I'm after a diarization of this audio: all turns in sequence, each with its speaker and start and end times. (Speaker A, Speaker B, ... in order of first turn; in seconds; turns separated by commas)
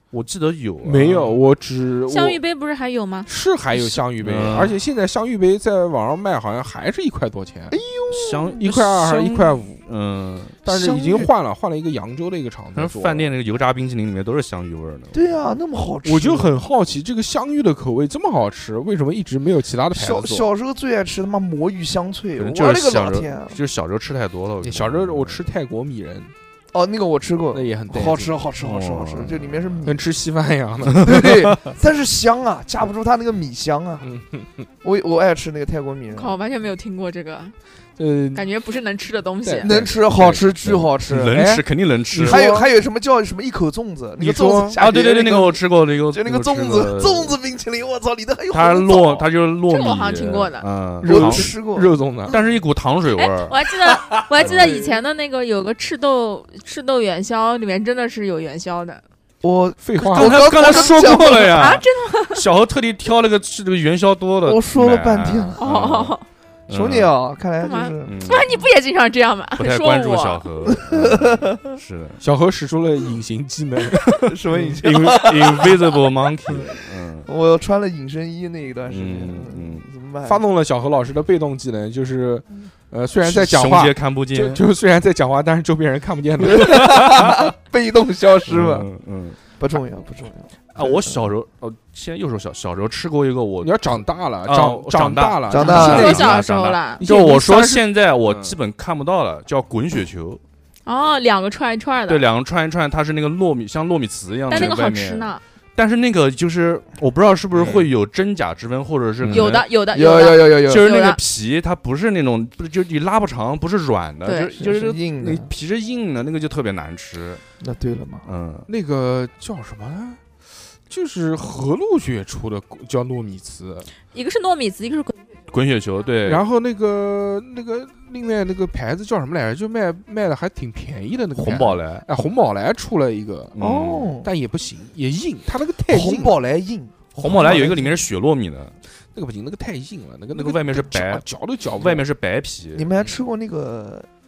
Speaker A: 0.1-1.3, Speaker B: 0.8-2.4, Speaker C: 2.1-3.3, Speaker B: 3.2-7.8, Speaker A: 4.2-4.8, Speaker D: 7.7-8.6, Speaker A: 8.1-10.6, Speaker B: 8.6-9.8, Speaker B: 10.6-13.3, Speaker D: 10.7-11.3, Speaker A: 12.7-15.4, Speaker D: 15.1-16.5, Speaker B: 16.0-20.5, Speaker D: 19.9-23.6, Speaker A: 22.4-25.4, Speaker B: 24.6-26.3, Speaker D: 26.7-30.0, Speaker B: 27.5-28.4, Speaker A: 28.6-29.9, Speaker B: 29.8-31.2, Speaker A: 30.9-31.5, Speaker D: 31.0-34.0, Speaker B: 34.0-34.7, Speaker D: 34.8-36.4, Speaker C: 36.1-37.5, Speaker B: 38.0-38.5, Speaker C: 38.3-39.7, Speaker B: 39.4-40.4, Speaker D: 39.6-41.5, Speaker A: 40.1-42.4, Speaker B: 41.3-42.7, Speaker D: 42.2-49.2, Speaker B: 44.2-44.9, Speaker A: 44.8-47.3, Speaker A: 48.5-51.5, Speaker C: 49.7-50.7, Speaker B: 51.0-52.4, Speaker D: 51.0-52.4, Speaker A: 52.3-53.5, Speaker C: 53.1-59.0, Speaker D: 53.8-55.0, Speaker A: 54.4-54.7, Speaker D: 59.4-61.7, Speaker B: 59.8-60.6, Speaker A: 60.0-66.2, Speaker C: 60.6-62.5, Speaker D: 64.4-65.6, Speaker C: 65.6-66.2, Speaker A: 66.7-67.1, Speaker D: 66.7-68.1, Speaker C: 67.6-70.4, Speaker A: 68.0-68.6, Speaker A: 69.6-72.2, Speaker D: 70.7-71.8, Speaker B: 72.2-75.1, Speaker A: 74.1-77.3, Speaker D: 74.2-80.4, Speaker A: 78.9-79.8, Speaker B: 80.2-87.2, Speaker A: 83.2-84.6, Speaker D: 86.4-88.9, Speaker A: 86.6-87.4, Speaker A: 88.5-89.4, Speaker D: 89.6-91.2, Speaker A: 90.7-100.4, Speaker B: 93.6-96.4, Speaker D: 95.5-96.2, Speaker C: 95.6-97.1, Speaker B: 97.0-98.6, Speaker C: 100.8-102.2, Speaker A: 102.1-109.7, Speaker C: 104.5-105.4, Speaker B: 107.5-107.9, Speaker B: 109.2-109.5, Speaker C: 109.3-111.2, Speaker D: 109.9-110.8, Speaker A: 110.6-117.4, Speaker C: 114.2-114.5, Speaker D: 114.6-115.5, Speaker D: 117.6-118.2, Speaker A: 118.2-118.7, Speaker B: 118.7-120.2, Speaker B: 120.9-123.9, Speaker C: 124.1-125.1, Speaker A: 125.5-126.4, Speaker B: 126.2-133.5, Speaker A: 131.3-132.0, Speaker A: 133.5-134.1, Speaker D: 133.6-134.3, Speaker B: 134.2-136.3, Speaker D: 135.9-138.0, Speaker B: 137.2-137.8, Speaker A: 137.2-138.8, Speaker B: 139.1-142.0, Speaker A: 140.3-141.2, Speaker A: 141.8-142.9, Speaker D: 142.7-144.1